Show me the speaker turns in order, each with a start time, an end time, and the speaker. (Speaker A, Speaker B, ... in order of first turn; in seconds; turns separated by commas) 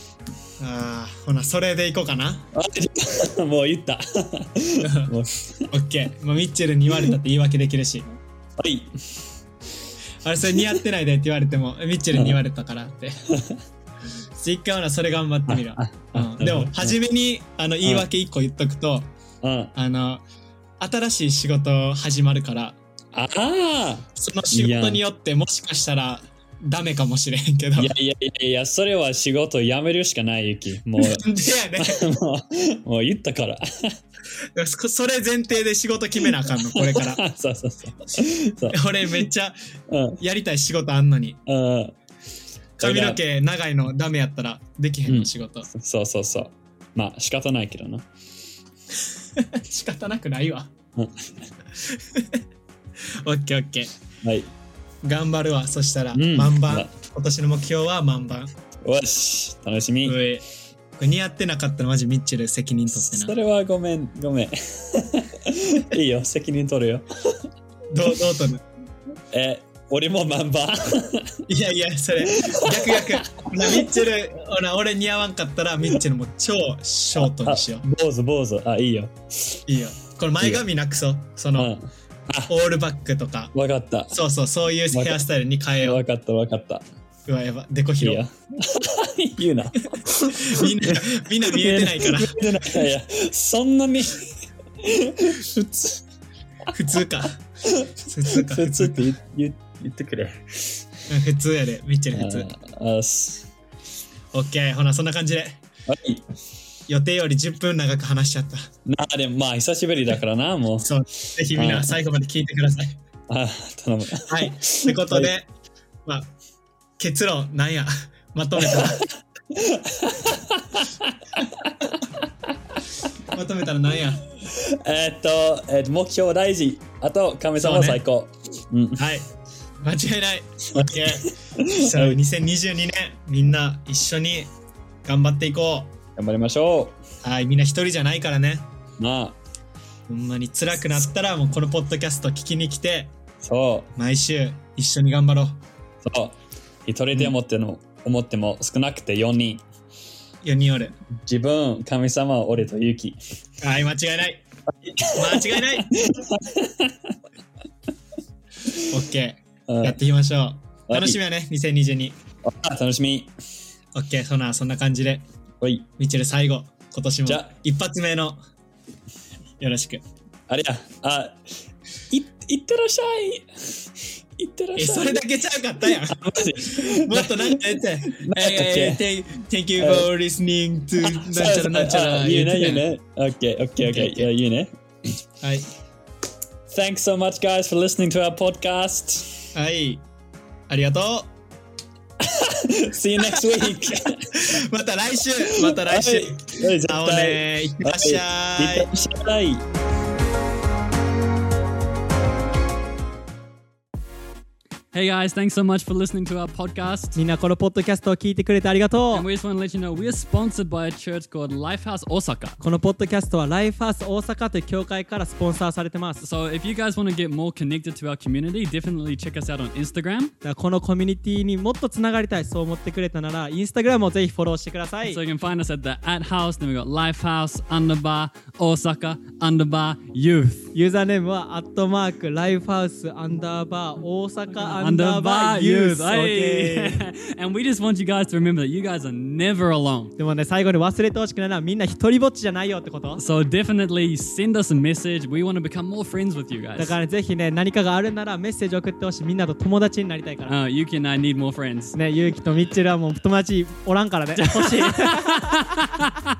Speaker A: 0.6-2.5, Speaker B: 2.5-5.7, Speaker A: 4.8-5.1, Speaker A: 5.7-8.1, Speaker B: 8.6-9.0, Speaker A: 10.2-13.2, Speaker A: 14.4-19.1, Speaker B: 15.5-17.0, Speaker B: 19.4-19.7, Speaker A: 19.7-20.2, Speaker A: 20.8-22.8, Speaker B: 23.1-25.0, Speaker A: 24.1-27.9, Speaker B: 27.8-34.0, Speaker A: 31.0-32.1, Speaker A: 34.5-37.2, Speaker B: 36.5-39.3, Speaker A: 38.7-39.6, Speaker B: 39.9-40.2, Speaker A: 40.2-41.4, Speaker B: 41.5-42.0, Speaker A: 42.8-45.7, Speaker B: 42.8-43.2, Speaker B: 45.0-48.1, Speaker A: 49.4-50.7, Speaker B: 51.0-51.3, Speaker A: 51.8-52.4, Speaker A: 53.2-53.9, Speaker B: 54.2-54.5, Speaker A: 55.0-58.5, Speaker B: 56.1-56.9, Speaker B: 58.8-60.2, Speaker A: 60.0-60.4, Speaker A: 61.0-63.4, Speaker B: 62.9-67.3, Speaker A: 67.9-68.6, Speaker B: 69.3-71.4, Speaker A: 71.5-77.8, Speaker B: 72.2-74.1, Speaker B: 77.2-79.6, Speaker A: 79.7-81.7, Speaker B: 80.4-80.6, Speaker B: 81.5-82.5, Speaker A: 82.5-83.5, Speaker B: 83.5-84.2, Speaker A: 84.1-86.0, Speaker B: 84.9-85.2, Speaker B: 85.8-86.8, Speaker A: 87.3-88.2, Speaker B: 88.0-96.0, Speaker A: 89.9-92.4, Speaker A: 96.7-97.4, Speaker B: 97.7-100.8, Speaker A: 98.0-99.1, Speaker A: 101.1-102.5, Speaker B: 102.1-103.5, Speaker A: 104.3-105.6, Speaker B: 105.9-106.2, Speaker A: 106.9-108.7, Speaker B: 108.9-110.9, Speaker A: 110.8-113.0, Speaker B: 111.5-111.9, Speaker B: 113.3-115.3, Speaker A: 114.3-115.5, Speaker A: 117.0-119.1, Speaker B: 118.6-121.7, Speaker A: 123.3-124.2, Speaker B: 124.4-129.0, Speaker A: 127.6-128.0, Speaker A: 129.0-129.2, Speaker A: 129.8-134.5, Speaker B: 130.7-132.2, Speaker A: 135.1-135.9, Speaker B: 136.2-137.0, Speaker A: 137.2-138.7, Speaker B: 139.0-139.4, Speaker A: 140.1-143.1, Speaker B: 143.4-143.9, Speaker A: 143.9-145.6, Speaker B: 146.0-149.6, Speaker A: 150.4-150.9, Speaker B: 151.2-153.2, Speaker A: 153.6-154.4, Speaker A: 155.0-155.9, Speaker B: 155.1-157.1, Speaker A: 158.8-162.2, Speaker B: 159.7-160.0, Speaker B: 160.9-161.2, Speaker B: 162.4-163.3, Speaker A: 163.9-165.2, Speaker B: 165.6-165.9, Speaker A: 166.0-168.4, Speaker A: 169.6-170.0, Speaker B: 170.5-171.4, Speaker B: 172.1-173.8, Speaker B: 174.4-175.2, Speaker A: 174.8-182.8, Speaker B: 175.8-177.6, Speaker B: 178.1-179.0, Speaker B: 179.8-180.1, Speaker B: 181.0-185.2, Speaker A: 183.8-184.3, Speaker A: 185.4-185.7, Speaker B: 186.7-189.5, Speaker A: 189.6-190.0, Speaker A: 190.7-191.3, Speaker B: 192.2-194.6, Speaker A: 193.2-193.7, Speaker A: 194.3-198.9, Speaker B: 195.4-199.6, Speaker C: 204.9-207.2, Speaker A: 207.2-209.2, Speaker C: 209.1-212.6, Speaker A: 212.6-216.2, Speaker C: 216.2-220.3, Speaker A: 220.4-225.2, Speaker C: 225.0-230.7, Speaker A: 230.7-237.0, Speaker C: 234.5-240.1, Speaker A: 240.2-243.2, Speaker C: 243.2-246.9, Speaker A: 246.8-250.6, Speaker C: 250.5-251.9, Speaker A: 251.9-255.5, Speaker C: 254.4-256.1